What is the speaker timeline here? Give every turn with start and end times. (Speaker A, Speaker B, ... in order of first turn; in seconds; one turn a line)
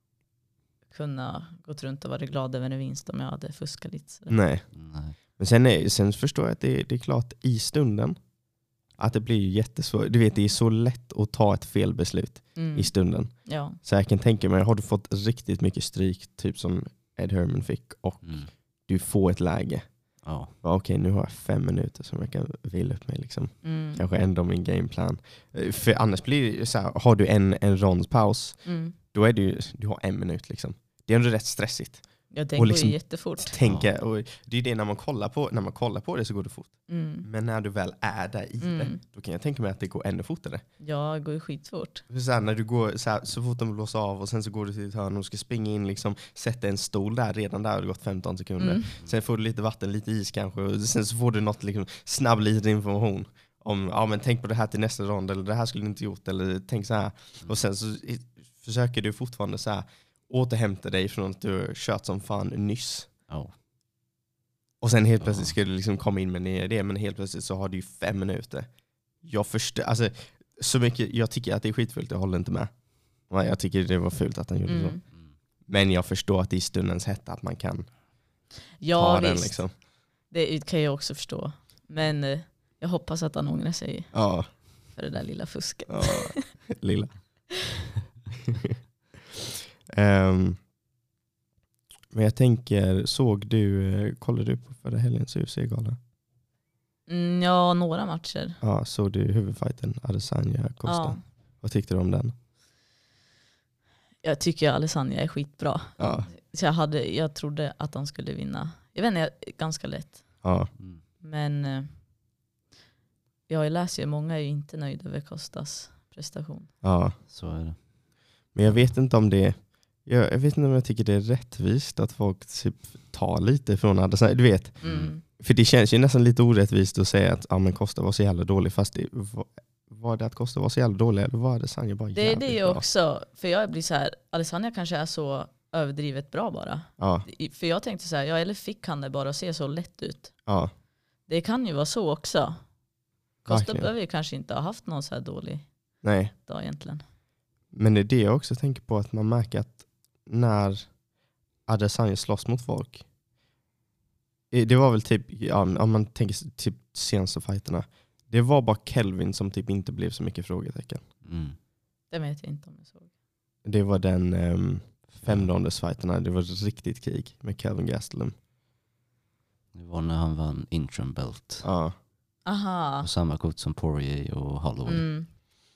Speaker A: 0.9-4.4
Speaker B: 4.3-40.6
Speaker C: 4.7-5.2
Speaker A: 12.5-13.8
Speaker C: 18.2-18.5
Speaker C: 20.2-20.5
Speaker A: 23.6-24.0
Speaker A: 28.6-28.9
Speaker A: 32.3-33.6
Speaker C: 33.6-33.9
Speaker A: 36.9-37.3
Speaker A: 38.6-39.0
Speaker A: 40.8-42.0
Speaker B: 42.1-63.2
Speaker A: 48.6-48.9
Speaker C: 63.3-63.5
Speaker B: 64.8-78.0
Speaker C: 65.2-65.5
Speaker A: 74.7-75.0
Speaker A: 78.8-86.5
Speaker B: 78.9-79.8
Speaker B: 84.1-84.5
Speaker B: 85.9-87.7
Speaker B: 89.9-90.6
Speaker B: 92.1-96.0
Speaker A: 97.1-98.6
Speaker B: 98.6-102.3
Speaker A: 100.8-101.2
Speaker A: 104.2-112.0
Speaker B: 106.0-106.3
Speaker B: 110.4-110.7
Speaker C: 110.8-111.0
Speaker A: 113.5-116.7
Speaker B: 116.8-117.2
Speaker C: 117.3-117.9
Speaker B: 118.5-132.8
Speaker C: 124.8-125.1
Speaker A: 124.8-125.2
Speaker A: 132.1-140.5
Speaker B: 137.0-137.2
Speaker B: 140.4-140.7
Speaker A: 141.2-142.8
Speaker A: 143.4-147.0
Speaker B: 143.5-143.9
Speaker B: 146.0-146.3
Speaker B: 147.7-151.0
Speaker B: 151.6-153.1
Speaker B: 154.5-161.1
Speaker C: 161.2-161.6
Speaker A: 162.1-163.1
Speaker B: 163.6-168.3
Speaker C: 165.2-165.5
Speaker C: 169.7-171.7
Speaker B: 171.6-171.9
Speaker A: 172.4-173.1
Speaker C: 173.0-175.2
Speaker A: 174.8-175.3